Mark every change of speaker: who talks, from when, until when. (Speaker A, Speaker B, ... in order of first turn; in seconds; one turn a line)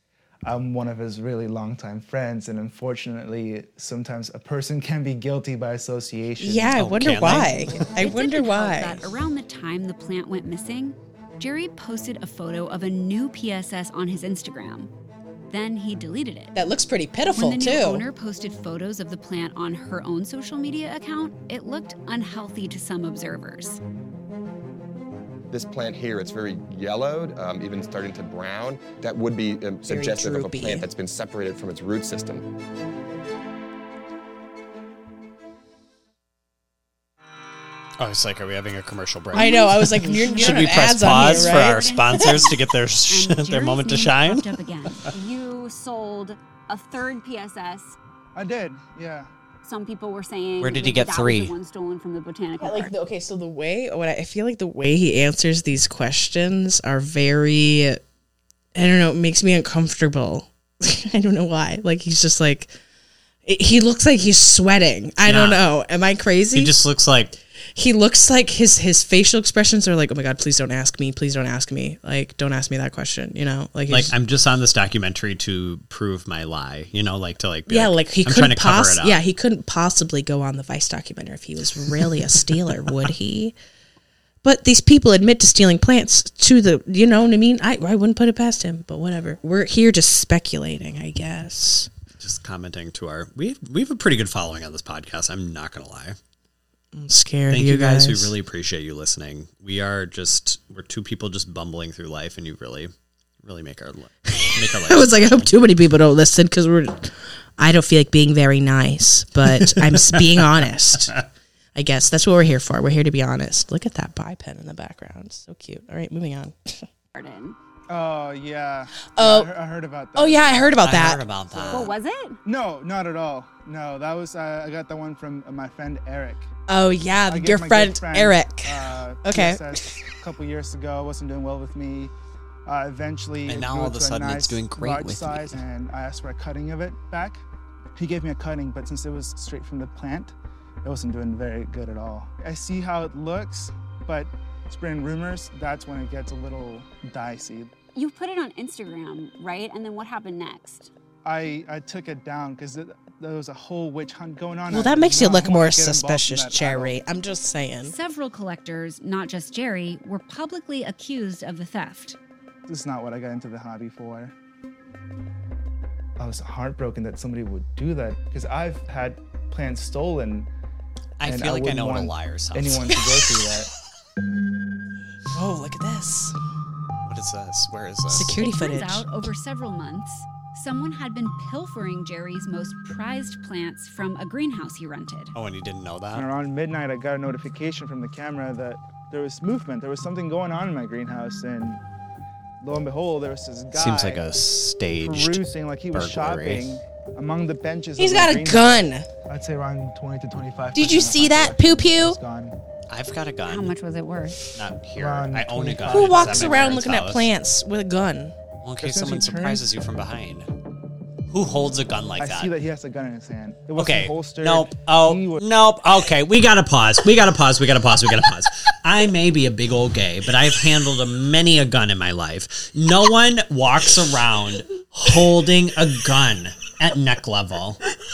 Speaker A: 0.4-6.8
Speaker B: 6.4-9.0
Speaker C: 6.7-7.9
Speaker D: 7.9-14.9
Speaker D: 15.5-16.5
Speaker B: 16.5-18.0
Speaker D: 17.3-23.8
Speaker E: 25.5-32.5
Speaker B: 29.9-30.9
Speaker C: 38.0-45.0
Speaker B: 39.3-42.0
Speaker D: 40.1-42.5
Speaker D: 43.1-45.1
Speaker F: 45.1-48.0
Speaker A: 48.3-49.3
Speaker F: 49.6-52.9
Speaker C: 50.6-51.5
Speaker B: 52.6-58.0
Speaker B: 58.7-62.7
Speaker B: 63.5-66.8
Speaker C: 65.2-65.6
Speaker C: 66.5-67.3
Speaker B: 67.7-74.1
Speaker C: 73.9-79.2
Speaker B: 77.7-83.5
Speaker B: 84.4-91.9
Speaker C: 92.2-96.2
Speaker B: 96.9-98.3
Speaker C: 97.5-102.9
Speaker C: 103.4-105.5
Speaker B: 104.3-111.2
Speaker C: 109.5-110.5
Speaker B: 111.7-116.8
Speaker F: 117.1-117.6
Speaker A: 117.9-120.8
Speaker B: 119.1-119.5
Speaker B: 120.1-121.2
Speaker C: 120.8-122.0
Speaker A: 121.5-121.8
Speaker F: 121.7-122.4
Speaker A: 122.4-126.5
Speaker B: 126.7-130.0
Speaker A: 127.3-132.1
Speaker A: 132.7-137.4
Speaker C: 133.4-135.6
Speaker A: 137.9-147.7
Speaker F: 147.9-150.9
Speaker A: 151.2-157.0
Speaker B: 154.7-157.9
Speaker D: 157.8-162.2
Speaker A: 162.7-164.3
Speaker A: 166.2-170.5
Speaker C: 171.2-173.1
Speaker A: 171.2-173.7
Speaker B: 175.3-176.3
Speaker C: 177.1-178.4
Speaker B: 178.1-179.0
Speaker D: 178.4-185.3
Speaker C: 185.3-186.2
Speaker A: 186.1-191.8
Speaker A: 192.6-194.3
Speaker C: 193.7-195.4
Speaker A: 195.0-202.6
Speaker C: 195.9-196.8
Speaker B: 198.0-199.1
Speaker B: 200.7-202.2
Speaker C: 202.9-203.7
Speaker F: 203.5-204.4
Speaker C: 204.5-207.3
Speaker A: 204.9-206.7
Speaker B: 205.9-208.3
Speaker C: 208.6-210.5
Speaker A: 208.8-209.7
Speaker C: 211.3-212.5
Speaker A: 212.2-215.4
Speaker C: 213.8-227.8